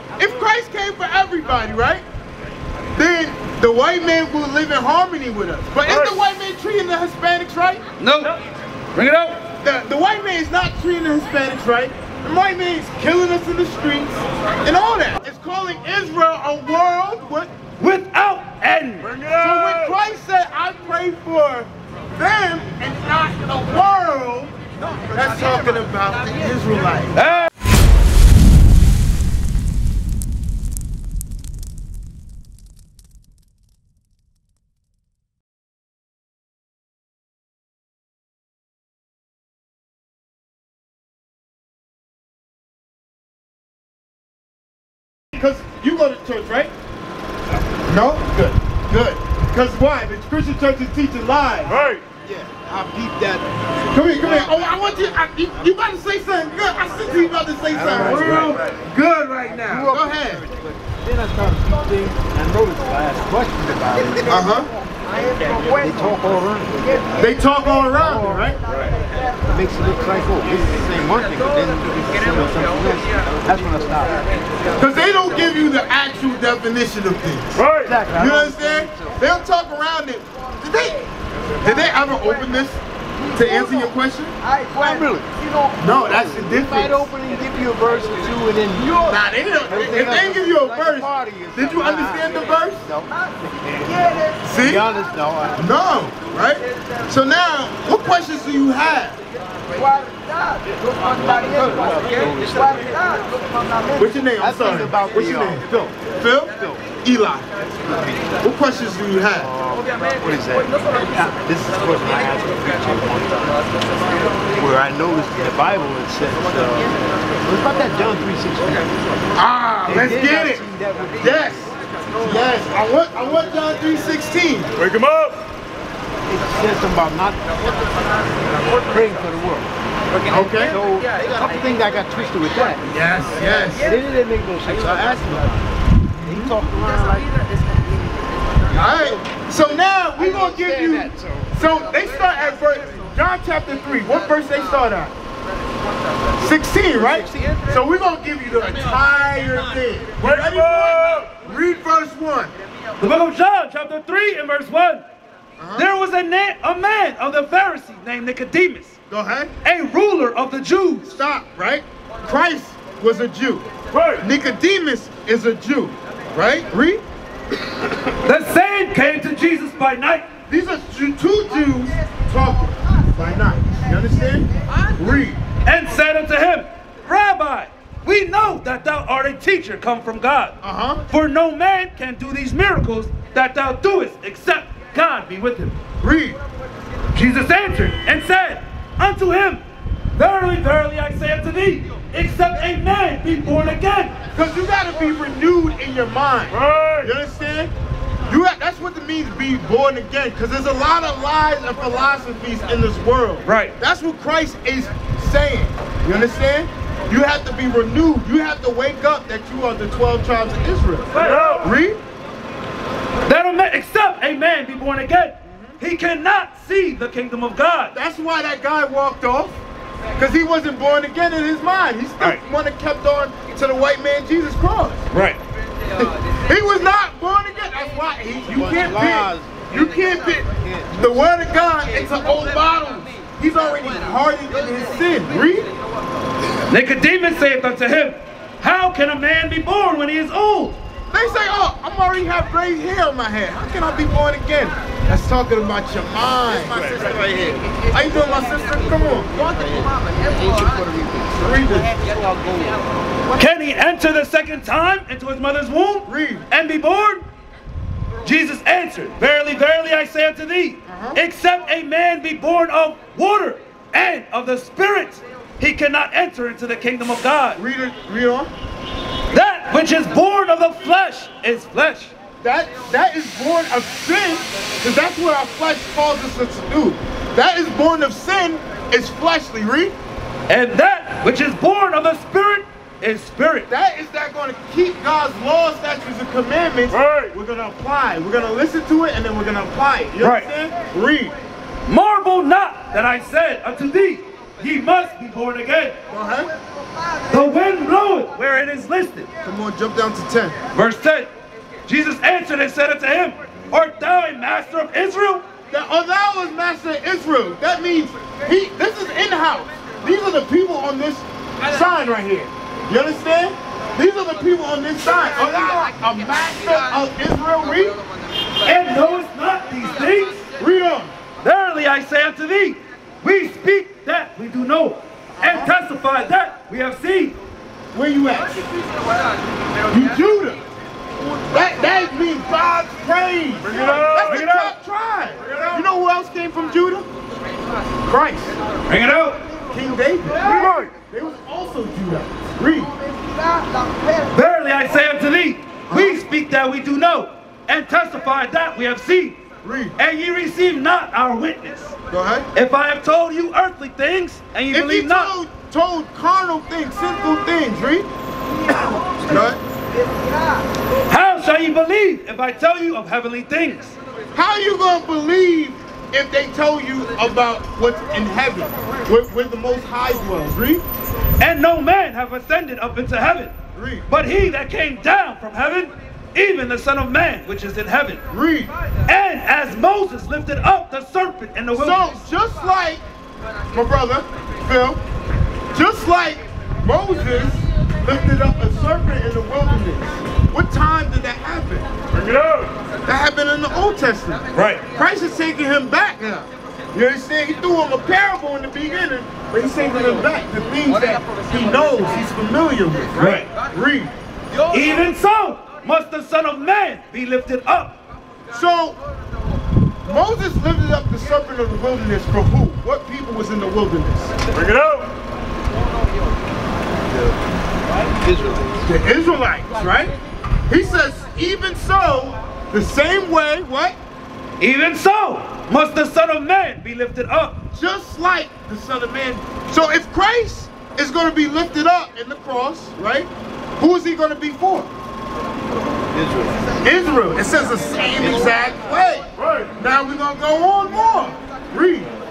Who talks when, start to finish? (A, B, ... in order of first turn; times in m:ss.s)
0:00.2-0:02.0 A
0:03.0-0:07.8 A
0:08.0-0:08.4 B
0:08.9-0:09.4 B
0:09.6-0:17.5 A
0:17.8-0:19.2 B
0:19.3-0:24.5 A
0:25.1-0:27.2 A
0:27.1-0:27.5 B
0:45.3-0:46.7 A
0:47.8-0:51.9 A
0:52.2-0:53.5 C
0:53.9-1:00.4 A
0:57.7-0:58.5 C
0:58.1-0:58.5 B
0:59.4-1:04.4 C
1:04.2-1:04.7 A
1:05.4-1:07.1 C
1:07.2-1:08.6 A
1:08.0-1:08.5 C
1:09.4-1:14.3 C
1:14.8-1:21.0 A
1:17.8-1:19.1 C
1:21.6-1:22.8 A
1:23.3-1:24.3 A
1:24.7-1:25.3 C
1:25.8-1:27.1 A
1:26.1-1:35.6 C
1:29.0-1:32.9 A
1:34.4-1:34.8 A
1:35.6-1:39.2 A
1:41.1-1:43.1 C
1:44.0-1:47.5 A
1:44.4-1:46.0 C
1:47.8-1:48.3 C
1:48.4-1:49.5 A
1:49.4-1:53.6 C
1:54.5-1:58.9 C
1:59.4-2:00.7 A
1:59.8-2:01.7 C
2:01.2-2:01.7 A
2:02.2-2:04.7 A
2:06.3-2:09.7 C
2:10.3-2:10.8 A
2:10.6-2:12.8 C
2:12.8-2:13.9 A
2:13.7-2:18.0 C
2:16.2-2:16.5 A
2:18.7-2:25.1 A
2:20.2-2:21.6 C
2:26.4-2:32.5 A
2:33.0-2:35.0 B
2:35.6-2:35.9 A
2:35.8-2:39.0 B
2:39.1-2:39.5 A
2:39.6-2:41.2 B
2:41.0-2:47.0 A
2:48.2-2:50.3 B
2:50.5-2:55.4 A
2:55.6-3:00.6 B
3:00.6-3:01.0 A
3:01.1-3:05.8 B
3:06.0-3:06.4 A
3:07.1-3:09.6 B
3:10.2-3:14.1 B
3:14.3-3:17.7 A
3:18.3-3:32.0 A
3:23.4-3:23.7 B
3:31.1-3:31.4 B
3:33.3-3:37.9 B
3:35.5-3:35.8 A
3:37.9-3:39.6 A
3:40.2-3:45.0 A
3:45.1-3:45.4 B
3:46.0-3:55.7 A
3:48.5-3:51.1 C
3:56.7-4:00.8 B
4:01.1-4:07.2 A
4:06.7-4:07.6 C
4:07.9-4:09.3 A
4:09.3-4:12.8 C
4:11.3-4:12.0 A
4:13.3-4:17.2 B
4:16.0-4:16.5 A
4:18.2-4:27.6 B
4:20.8-4:21.2 A
4:27.6-4:28.5 A
4:29.3-4:32.1 B
4:32.4-4:39.9 A
4:40.5-4:43.7 B
4:43.7-4:51.3 A
4:50.2-4:50.5 B
4:51.9-4:56.0 B
4:56.1-4:56.5 A
4:57.3-4:59.3 B
4:59.4-5:00.6 A
5:00.7-5:01.3 B
5:01.8-5:05.4 B
5:05.7-5:18.0 A
5:18.6-5:20.4 B
5:20.6-5:21.1 A
5:21.4-5:27.4 B
5:25.4-5:25.7 A
5:27.9-5:28.6 A
5:29.9-5:30.6 A
5:31.5-5:37.0 A
5:34.3-5:34.7 B
5:38.0-5:38.6 A
5:38.9-5:39.4 B
5:39.7-5:43.0 A
5:44.3-5:49.4 B
5:45.9-5:46.2 A
5:49.6-5:50.0 A
5:50.0-5:51.9 B
5:52.1-5:52.5 A
5:52.5-5:55.3 B
5:54.7-5:58.1 A
5:59.0-5:59.6 A
6:01.1-6:04.0 B
6:04.3-6:10.8 A
6:11.4-6:13.5 B
6:13.7-6:14.0 A
6:14.1-6:18.2 B
6:18.3-6:18.7 A
6:19.0-6:22.0 B
6:21.7-6:23.0 A
6:23.7-6:25.0 A
6:25.7-6:31.9 A
6:33.0-6:44.1 A
6:34.5-6:34.8 B
6:43.2-6:43.5 B
6:44.7-6:48.0 B
6:48.5-6:49.0 A
6:50.0-6:54.3 A
6:58.1-6:58.8 C
6:58.8-7:00.1 A
7:00.7-7:04.0 A
7:04.6-7:07.6 B
7:07.7-7:14.9 A
7:16.1-7:16.6 C
7:16.8-7:22.1 A